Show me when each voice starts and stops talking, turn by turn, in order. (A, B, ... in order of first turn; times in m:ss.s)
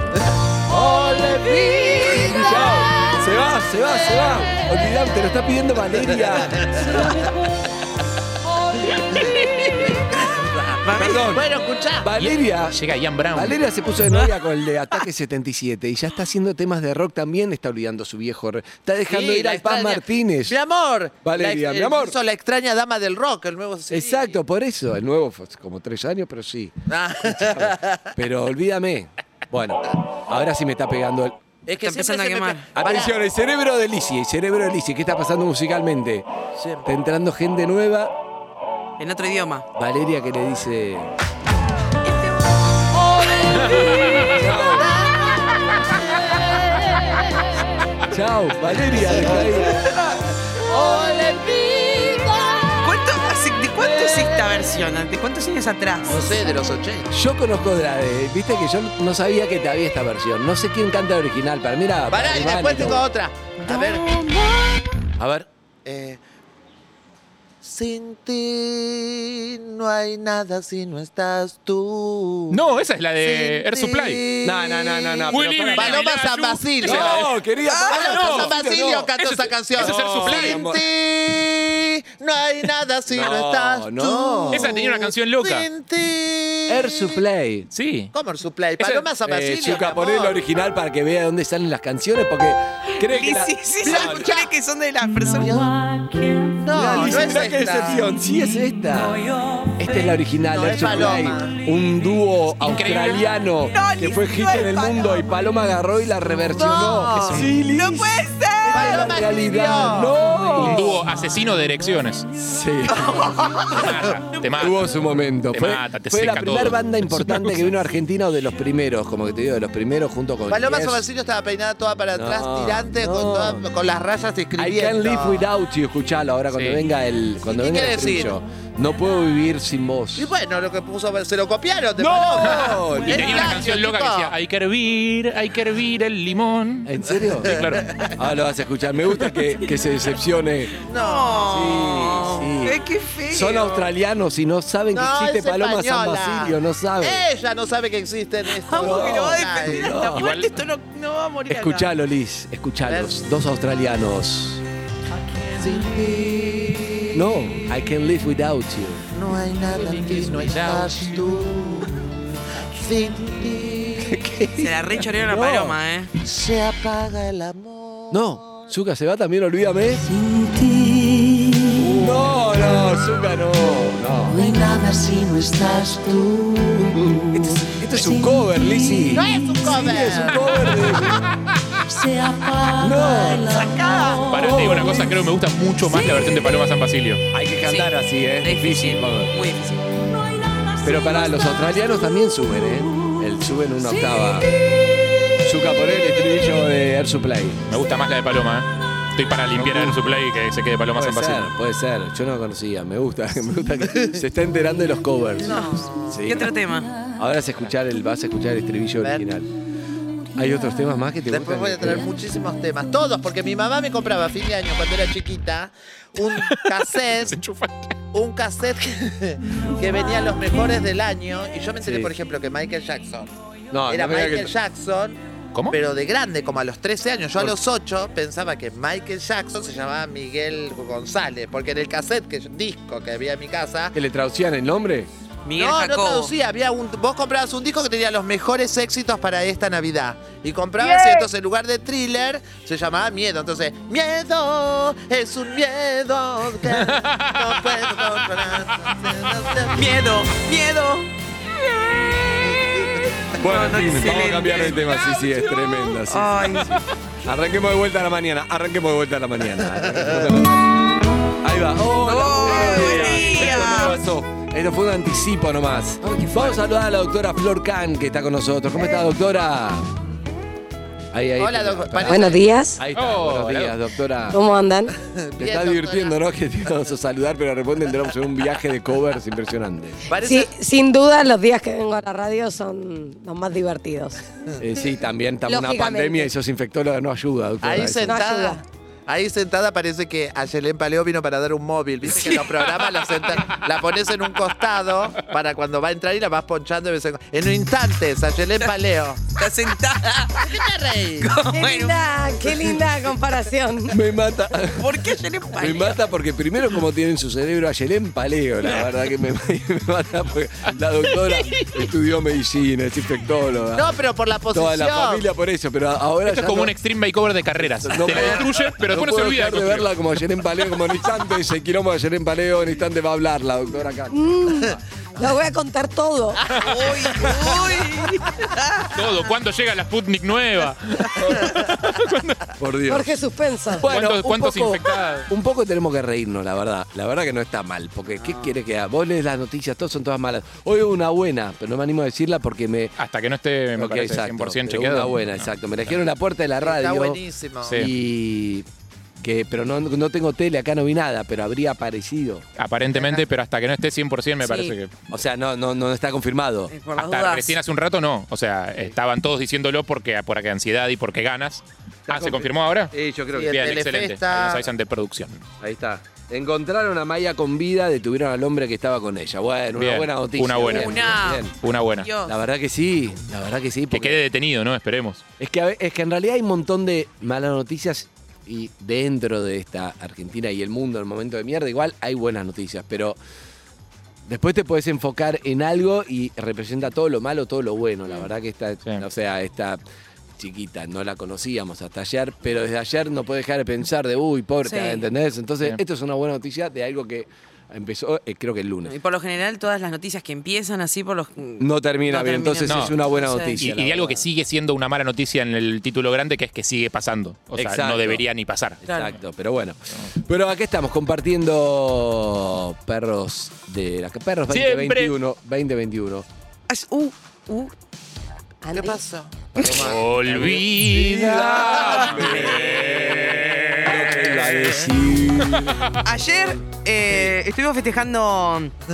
0:00.6-0:03.3 A
0:02.2-0:06.7 B
0:06.5-0:07.0 A
0:09.9-0:12.1 A
0:10.8-0:11.4 C
0:10.9-0:11.4 B
0:12.0-0:12.8 B
0:12.2-0:13.6 D
0:13.3-0:20.6 B
0:19.1-0:24.4 A
0:21.2-0:22.2 B
0:23.9-0:31.4 B
0:26.9-0:28.1 A
0:31.6-0:33.1 A
0:31.8-0:32.7 C
0:32.7-0:36.3 B
0:36.6-0:36.8 A
0:36.8-0:38.1 B
0:39.0-0:39.7 C
0:39.8-0:41.1 B
0:43.6-0:44.4 D
0:43.7-0:44.9 B
0:44.7-0:47.5 A
0:48.1-0:50.0 B
0:48.9-0:49.9 A
0:49.6-0:50.1 C
0:50.5-0:52.9 A
0:52.8-0:56.5 C
0:53.8-0:54.7 A
0:56.0-0:57.1 A
0:57.1-1:03.0 B
1:02.1-1:04.1 A
1:03.7-1:04.8 C
1:05.2-1:05.5 B
1:05.8-1:06.2 A
1:07.6-1:12.6 A
1:12.5-1:14.2 D
1:13.2-1:17.2 A
1:14.4-1:16.0 B
1:15.3-1:17.3 D
1:16.8-1:20.8 B
1:17.6-1:18.5 C
1:17.9-1:27.0 A
1:19.2-1:20.6 D
1:23.1-1:24.7 B
1:24.5-1:25.7 D
1:26.7-1:27.7 B
1:27.7-1:28.1 D
1:28.1-1:30.4 A
1:28.8-1:29.0 D
1:29.2-1:34.3 B
1:32.9-1:35.7 C
1:33.8-1:34.5 A
1:35.4-1:35.7 A
1:36.5-1:38.1 A
1:36.7-1:51.0 B
1:40.5-1:41.6 A
1:42.6-1:43.2 D
1:43.6-1:45.1 C
1:46.5-1:47.5 A
1:47.1-1:47.5 D
1:47.6-1:49.1 C
1:48.7-1:50.2 A
1:50.6-1:52.3 D
1:52.3-1:53.4 B
1:52.9-1:54.5 C
1:53.7-1:54.8 D
1:54.6-2:01.0 B
1:55.5-1:57.7 D
2:00.5-2:05.5 A
2:02.1-2:03.7 B
2:04.5-2:10.3 B
2:06.5-2:06.8 D
2:07.4-2:08.3 A
2:10.2-2:14.3 A
2:12.0-2:13.6 B
2:12.4-2:18.0 D
2:16.8-2:17.6 B
2:17.4-2:18.2 A
2:18.2-2:20.7 B
2:20.9-2:21.5 A
2:21.0-2:23.8 C
2:21.4-2:27.3 B
2:24.9-2:29.9 A
2:28.5-2:31.9 C
2:28.8-2:30.3 B
2:30.1-2:30.6 D
2:31.5-2:34.6 B
2:32.9-2:33.1 A
2:35.6-2:37.2 A
2:37.1-2:39.0 B
2:39.1-2:42.2 A
2:39.7-2:41.2 D
2:42.7-2:44.4 A
2:44.0-2:45.8 B
2:44.6-2:46.1 C
2:46.2-2:48.7 A
2:48.1-2:50.0 B
2:50.0-2:52.1 E
2:51.8-2:54.5 B
2:54.3-2:59.6 E
2:55.6-2:55.9 A
2:57.2-3:01.2 B
2:59.1-3:00.5 A
3:01.9-3:05.1 E
3:02.8-3:03.7 B
3:03.5-3:04.2 C
3:04.3-3:07.2 D
3:04.3-3:05.0 B
3:05.9-3:06.3 C
3:07.3-3:09.3 B
3:07.6-3:10.0 C
3:10.8-3:14.5 B
3:15.4-3:17.6 B
3:17.7-3:21.5 D
3:19.5-3:20.0 B
3:20.9-3:26.5 B
3:25.4-3:26.1 A
3:25.5-3:27.0 C
3:27.1-3:29.5 B
3:30.4-3:32.1 B
3:31.3-3:37.4 A
3:36.4-3:36.6 D
3:37.2-3:37.9 D
3:38.1-3:43.3 A
3:41.8-3:42.1 B
3:43.7-3:44.5 B
3:43.9-3:45.2 A
3:45.7-3:54.0 A
3:53.9-3:55.1 B
3:55.4-3:56.3 C
3:55.5-4:09.9 A
4:00.8-4:01.3 C
4:06.6-4:07.8 D
4:09.7-4:11.1 C
4:13.4-4:20.6 B
4:13.4-4:15.0 C
4:16.0-4:16.8 C
4:19.8-4:20.3 A
4:21.4-4:29.9 B
4:21.9-4:24.0 C
4:26.0-4:26.6 C
4:31.1-4:34.4 B
4:31.4-4:32.4 A
4:32.0-4:32.8 F
4:32.9-4:33.8 D
4:34.3-4:35.0 F
4:35.0-4:36.2 A
4:35.4-4:40.0 B
4:40.1-4:40.5 A
4:40.1-4:44.2 F
4:44.6-4:48.2 B
4:45.4-4:46.3 F
4:47.6-4:59.2 A
4:48.0-4:48.6 F
4:59.4-5:00.6 C
5:00.4-5:01.3 A
5:01.2-5:02.0 C
5:01.5-5:04.0 F
5:03.9-5:13.9 B
5:04.7-5:06.0 C
5:10.7-5:11.7 D
5:13.7-5:15.2 A
5:14.5-5:16.7 B
5:16.2-5:19.9 D
5:17.6-5:24.2 B
5:24.1-5:26.4 F
5:26.6-5:29.0 C
5:28.9-5:32.4 D
5:32.6-5:43.0 B
5:32.9-5:33.8 F
5:33.9-5:35.3 D
5:43.0-5:45.5 D
5:43.8-5:48.6 B
5:46.6-5:47.8 A
5:47.6-5:47.9 D
5:49.2-5:52.4 B
5:52.6-5:54.9 D
5:54.4-5:54.8 C
5:55.1-5:56.7 B
5:56.7-5:57.6 C
5:57.0-6:02.9 D
6:02.1-6:03.8 B
6:03.3-6:04.7 A
6:03.5-6:05.4 D
6:05.6-6:11.5 B
6:09.8-6:12.1 D
6:10.6-6:12.3 C
6:12.2-6:14.2 B
6:13.9-6:15.2 D
6:15.4-6:23.2 B
6:24.3-6:29.8 B
6:30.4-6:38.9 B
6:34.6-6:35.0 C
6:38.8-6:43.6 C
6:41.6-6:44.2 B
6:42.6-6:42.9 D
6:43.5-6:48.8 D
6:47.5-6:48.2 B
6:48.8-6:56.2 B
6:48.8-6:49.1 C
6:54.5-6:55.1 D
6:56.7-6:57.7 C
6:58.6-6:59.0 F
6:58.7-7:00.4 A
6:59.6-7:05.9 B
6:59.6-7:04.8 D
7:06.0-7:08.7 C